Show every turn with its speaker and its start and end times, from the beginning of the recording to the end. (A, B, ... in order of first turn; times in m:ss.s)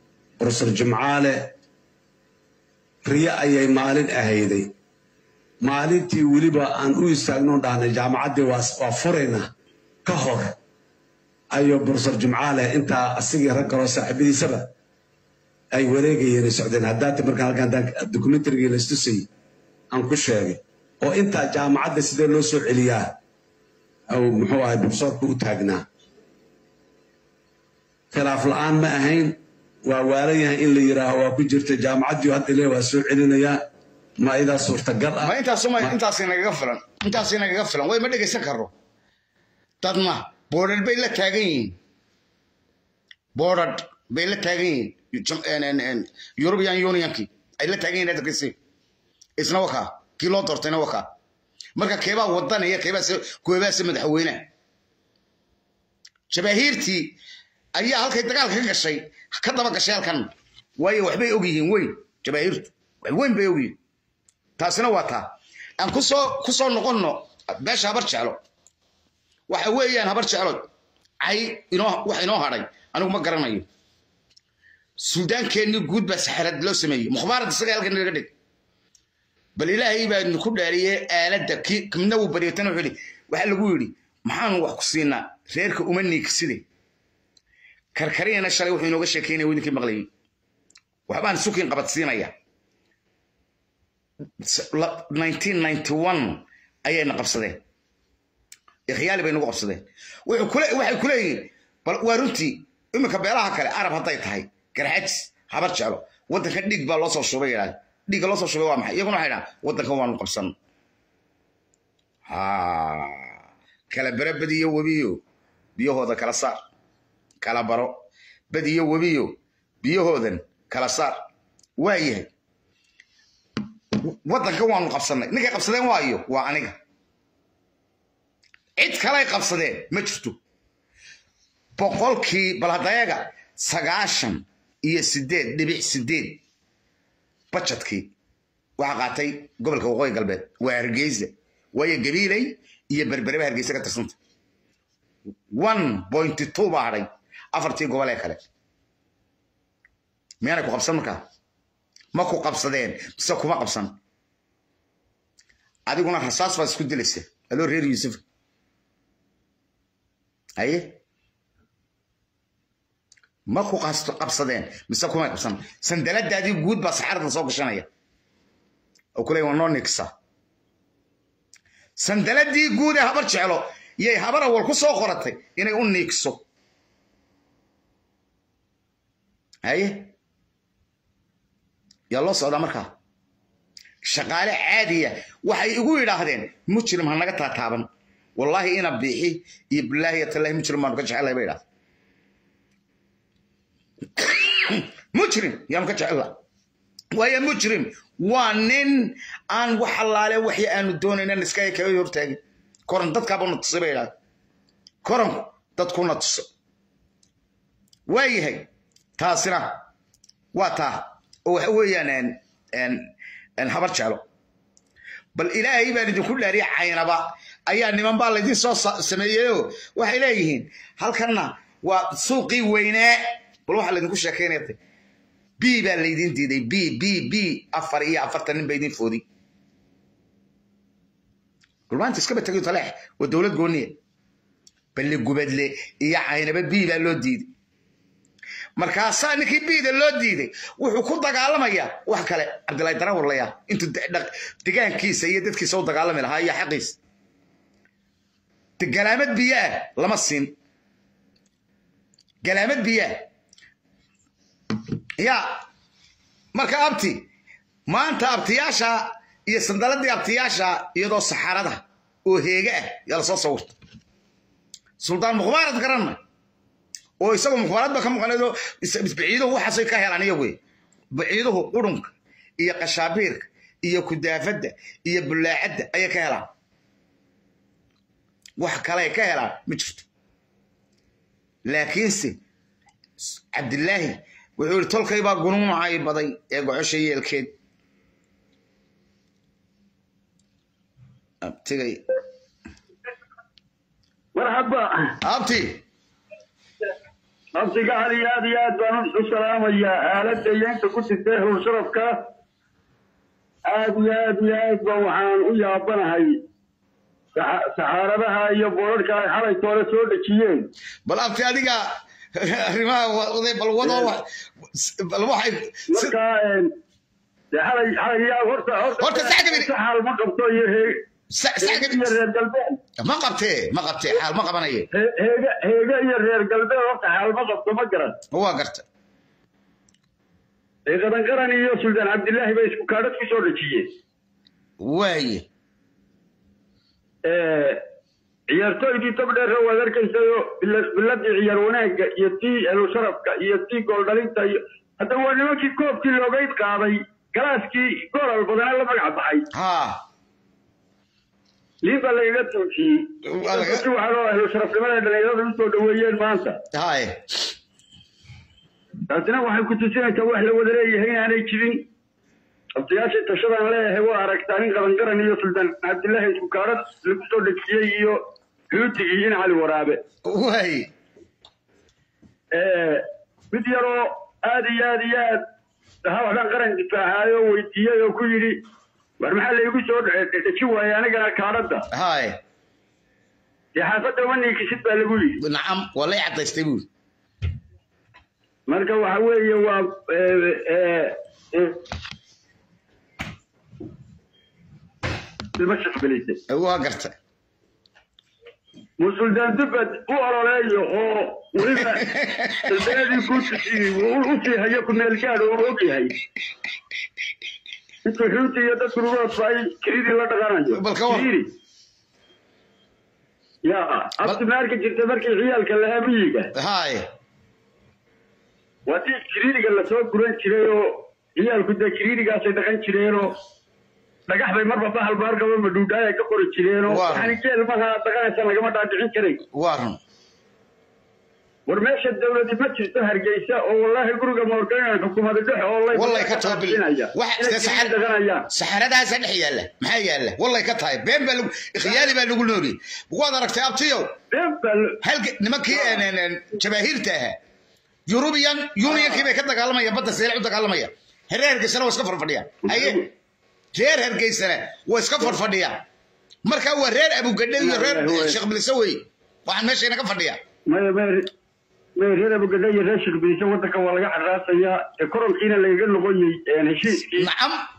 0:00.4-0:01.5 A
0:03.0-0:04.7 A
0:05.6-0:09.5 A
0:10.0-0:10.5 A
0:11.5-0:14.7 A
0:15.7-0:19.3 A
0:19.9-0:23.1 A
0:24.1-0:25.8 A
0:28.1-0:33.6 A
0:34.2-0:35.9 A
0:35.2-0:38.7 B
0:39.8-0:41.8 B
0:43.4-0:48.5 B
0:49.4-0:51.1 B
0:51.8-0:54.5 B
0:56.3-0:57.2 B
0:57.8-1:03.8 B
1:04.6-1:08.4 B
1:09.5-1:10.7 B
1:11.2-1:13.6 B
1:15.0-1:18.3 B
1:19.6-1:26.6 B
1:27.9-1:30.1 B
1:31.1-1:32.3 B
1:34.4-1:37.6 B
1:38.9-1:50.5 B
1:52.3-1:53.4 B
1:53.9-1:55.2 B
1:55.8-1:56.6 B
1:57.4-2:01.2 B
2:01.8-2:02.3 B
2:04.0-2:06.8 B
2:08.8-2:10.4 B
2:11.8-2:16.4 B
2:17.5-2:18.1 B
2:18.8-2:24.2 B
2:25.5-2:28.4 B
2:30.4-2:31.2 B
2:32.1-2:33.9 B
2:35.9-2:38.2 B
2:40.6-2:41.0 B
2:43.5-2:47.9 B
2:49.2-2:50.1 B
2:52.0-2:56.4 B
2:59.6-3:00.1 B
3:02.1-3:02.9 B
3:04.0-3:11.6 B
3:14.2-3:16.4 B
3:17.1-3:24.1 B
3:25.0-3:26.4 B
3:28.1-3:29.8 B
3:30.5-3:34.2 B
3:35.3-3:44.8 B
3:45.6-3:49.2 B
3:51.9-3:54.0 B
3:54.9-3:57.5 B
3:58.8-4:07.0 B
4:08.8-4:10.5 B
4:12.4-4:13.3 B
4:15.2-4:15.6 B
4:16.5-4:17.3 B
4:17.9-4:23.7 B
4:25.0-4:26.2 B
4:27.2-4:30.6 B
4:31.1-4:36.5 B
4:38.6-4:40.0 B
4:41.6-4:42.4 B
4:43.2-4:47.5 B
4:51.4-4:52.0 B
4:54.3-4:54.8 C
4:55.2-4:55.8 B
4:57.6-5:02.1 C
5:03.7-5:06.3 C
5:07.4-5:10.7 C
5:11.0-5:16.1 B
5:13.8-5:14.1 C
5:15.9-5:16.6 C
5:17.5-5:20.9 C
5:19.0-5:19.7 B
5:21.3-5:22.2 B
5:21.6-5:22.8 C
5:23.0-5:24.9 B
5:24.9-5:28.1 C
5:28.3-5:28.8 B
5:30.8-5:33.8 C
5:34.8-5:35.4 B
5:37.2-5:37.8 C
5:38.5-5:49.4 C
5:49.5-5:50.0 B
5:51.8-5:56.6 C
5:53.2-5:53.8 B
5:56.7-5:57.5 B
5:59.1-6:01.8 C
6:02.8-6:08.2 C
6:08.7-6:10.0 C
6:10.2-6:10.9 B
6:12.5-6:15.4 C
6:16.0-6:18.6 C
6:19.2-6:21.8 C
6:21.9-6:22.4 B
6:23.8-6:25.4 C
6:25.4-6:26.8 B
6:28.7-6:31.7 C
6:35.6-6:36.4 C
6:36.5-6:37.1 B
6:39.0-6:42.1 C
6:42.1-6:42.5 B
6:42.6-6:46.1 C
6:48.0-6:51.4 C
6:50.7-6:51.3 B
6:53.6-6:56.5 C
6:56.5-6:57.0 B
6:58.9-7:03.3 C
7:04.3-7:09.4 C
7:06.9-7:07.3 B
7:09.5-7:10.0 B
7:11.7-7:18.4 C
7:15.9-7:18.0 B
7:18.5-7:24.1 B
7:24.3-7:25.0 C
7:25.0-7:27.4 B
7:25.7-7:26.0 C
7:28.1-7:33.1 B
7:28.8-7:29.2 C
7:32.6-7:33.0 C
7:33.7-7:35.8 B
7:36.4-7:40.4 B
7:37.6-7:38.4 C
7:40.7-7:41.2 C
7:42.0-7:47.3 C
7:47.1-7:47.6 B